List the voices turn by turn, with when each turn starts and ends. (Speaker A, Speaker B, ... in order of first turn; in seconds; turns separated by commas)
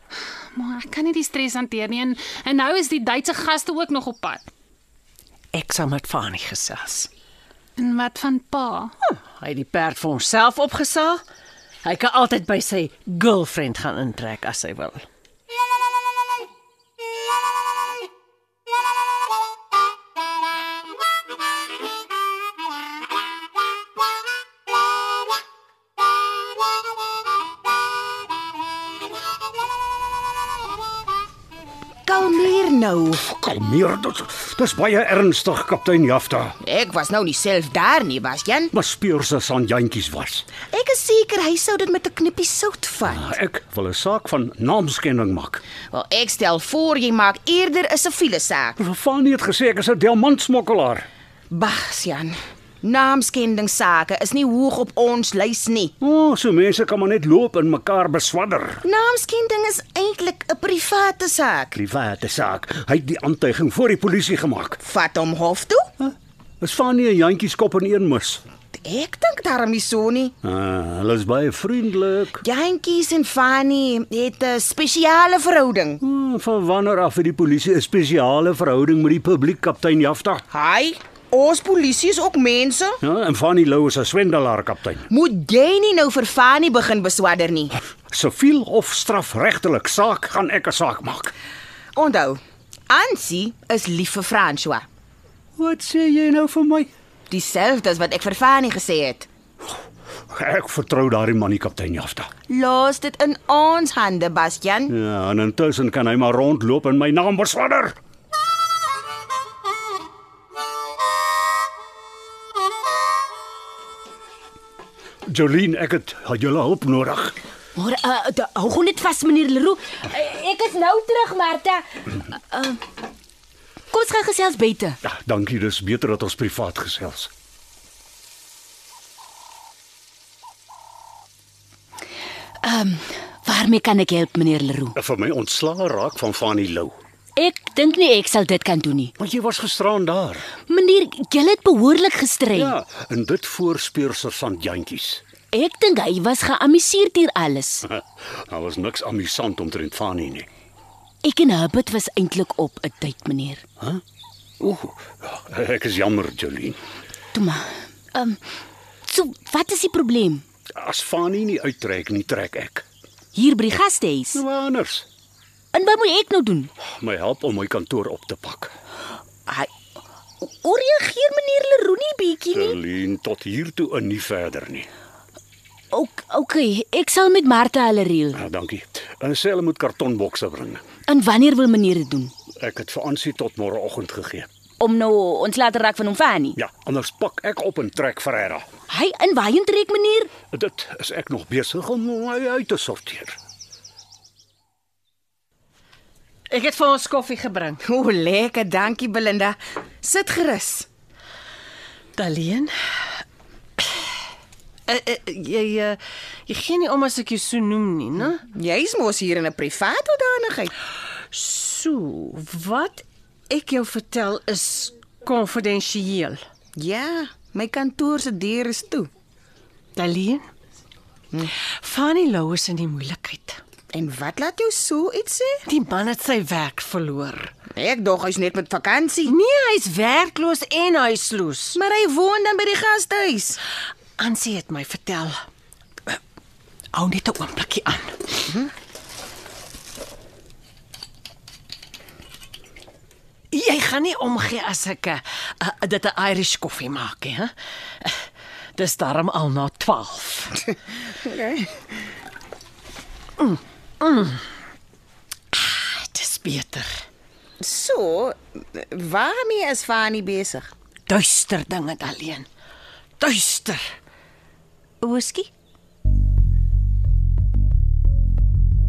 Speaker A: 0.5-4.5, Speaker B: 5.5-7.1, Speaker A: 7.8-8.9, Speaker B: 9.1-11.2, Speaker B: 11.8-15.0, Speaker C: 32.1-33.2, Speaker D: 33.2-36.6, Speaker C: 36.6-38.7, Speaker D: 38.7-40.5, Speaker C: 40.7-43.4, Speaker D: 43.2-45.6, Speaker C: 45.9-48.8, Speaker D: 48.8-51.1, Speaker C: 51.5-56.0, Speaker D: 56.0-58.9, Speaker C: 58.8-61.7, Speaker D: 61.7-64.8, Speaker C: 64.8-65.9, Speaker D: 66.0-68.4, Speaker C: 68.7-70.3, Speaker D: 70.4-72.4, Speaker C: 72.4-76.0, Speaker D: 76.0-80.4, Speaker C: 80.5-83.0, Speaker D: 83.0-85.1, Speaker C: 85.1-87.8, Speaker D: 88.1-91.3, Speaker C: 91.9-94.9, Speaker D: 95.6-96.9, Speaker C: 97.3-99.3, Speaker D: 100.3-102.3, Speaker C: 102.5-104.9, Speaker D: 104.9-108.0, Speaker D: 115.3-117.4, Speaker E: 117.8-122.8, Speaker E: 123.9-125.0, Speaker D: 125.0-127.3, Speaker E: 132.6-135.0, Speaker D: 134.9-137.0, Speaker E: 137.4-139.2, Speaker D: 139.2-140.5, Speaker E: 140.7-142.8, Speaker D: 142.5-145.2, Speaker E: 145.5-147.9, Speaker D: 147.9-150.5, Speaker E: 151.2-153.6, Speaker D: 154.6-156.8, Speaker E: 157.3-158.4, Speaker E: 159.1-160.4, Speaker D: 160.8-162.8, Speaker E: 163.3-164.4, Speaker D: 164.3-165.1, Speaker E: 165.7-166.7, Speaker D: 166.8-168.7, Speaker E: 170.4-172.8, Speaker D: 172.5-174.9, Speaker E: 175.9-178.4, Speaker D: 178.4-180.8, Speaker E: 181.1-182.3, Speaker D: 182.6-184.5, Speaker E: 184.8-186.6, Speaker D: 186.6-188.7, Speaker E: 188.9-190.3, Speaker D: 190.5-193.4, Speaker B: 196.5-197.8, Speaker C: 197.9-200.9, Speaker B: 202.2-202.7, Speaker B: 204.9-208.4, Speaker C: 208.5-210.7, Speaker B: 211.3-216.4, Speaker C: 216.8-219.1, Speaker B: 220.0-220.5, Speaker B: 221.8-223.6, Speaker C: 223.9-225.6, Speaker B: 225.7-227.5, Speaker C: 227.7-229.3, Speaker B: 229.2-231.8, Speaker C: 231.8-233.6, Speaker B: 234.2-235.4, Speaker B: 236.9-238.6, Speaker B: 243.5-248.2, Speaker B: 248.8-250.7, Speaker C: 251.1-251.7, Speaker B: 253.4-254.5, Speaker B: 255.5-257.1, Speaker C: 257.6-260.7, Speaker B: 261.1-262.5, Speaker B: 263.2-263.9, Speaker B: 265.0-265.5